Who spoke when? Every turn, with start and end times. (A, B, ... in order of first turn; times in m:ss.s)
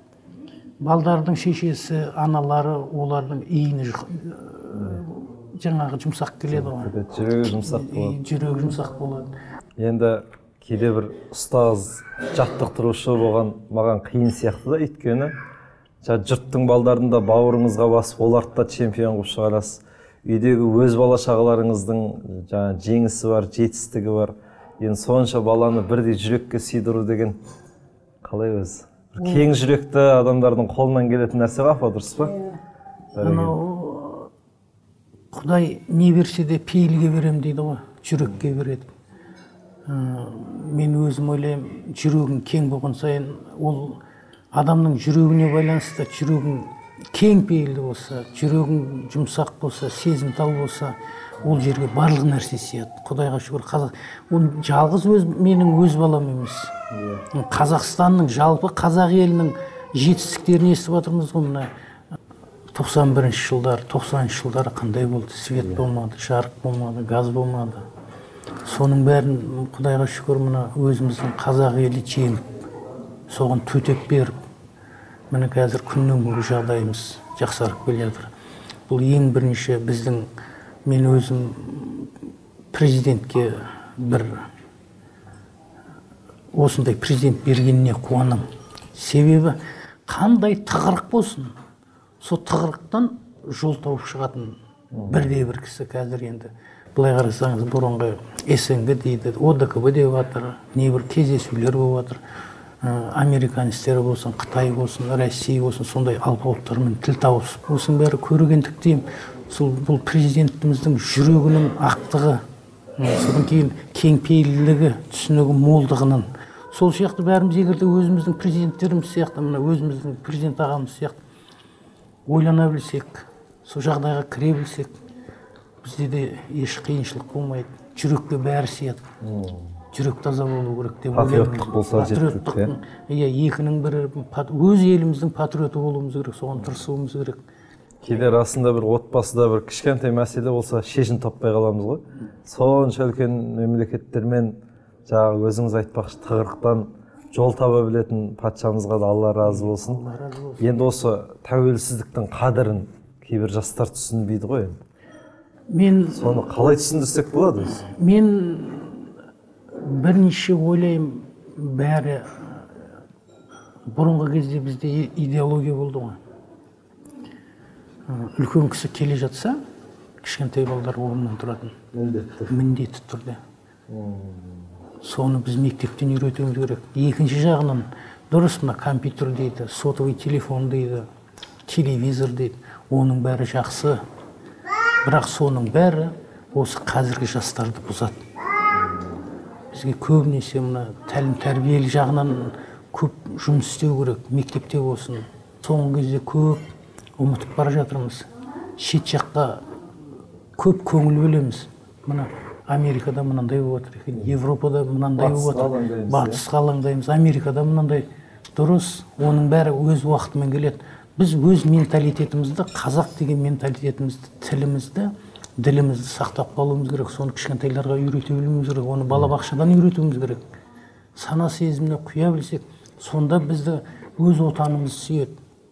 0:00.8-0:06.9 A
0:06.5-0:08.2 B
0:07.6-0:09.3 A
0:09.8-0:15.3 B
0:16.0-0:27.4 B
0:28.2-0:32.4 B
0:29.2-0:29.5 A
0:33.1-0:33.6 B
0:33.2-0:34.3 A
0:35.3-0:38.9 A
0:39.8-0:44.0 A
0:44.5-0:56.7 A
0:56.9-0:57.2 B
0:57.3-1:01.7 A
1:02.7-1:07.8 A
1:05.6-1:05.8 B
1:08.6-1:12.4 A
1:13.3-1:14.4 A
1:15.3-1:18.3 A
1:18.9-1:20.3 A
1:20.8-1:22.1 A
1:22.7-1:24.4 A
1:26.5-1:31.5 A
1:32.2-1:42.2 A
1:34.9-1:35.3 B
1:42.8-1:52.4 A
1:53.0-2:01.2 A
2:02.2-2:05.0 A
2:05.8-2:09.0 A
2:09.2-2:09.7 B
2:09.9-2:17.4 A
2:11.1-2:12.7 B
2:18.0-2:30.0 B
2:29.4-2:30.9 A
2:30.6-2:34.8 B
2:35.7-2:36.4 A
2:36.1-2:37.8 B
2:37.8-2:39.1 A
2:39.7-2:42.8 A
2:43.9-2:46.2 A
2:48.1-2:49.6 A
2:50.2-2:51.8 A
2:51.9-2:52.5 B
2:52.5-2:53.4 A
2:53.9-2:54.7 B
2:55.0-3:01.1 A
3:01.6-3:04.0 A
3:05.0-3:08.2 A
3:08.7-3:09.2 B
3:09.7-3:16.6 A
3:17.2-3:18.3 A
3:18.8-3:19.6 A
3:20.6-3:40.4 A
3:25.2-3:26.4 B
3:41.2-3:45.4 A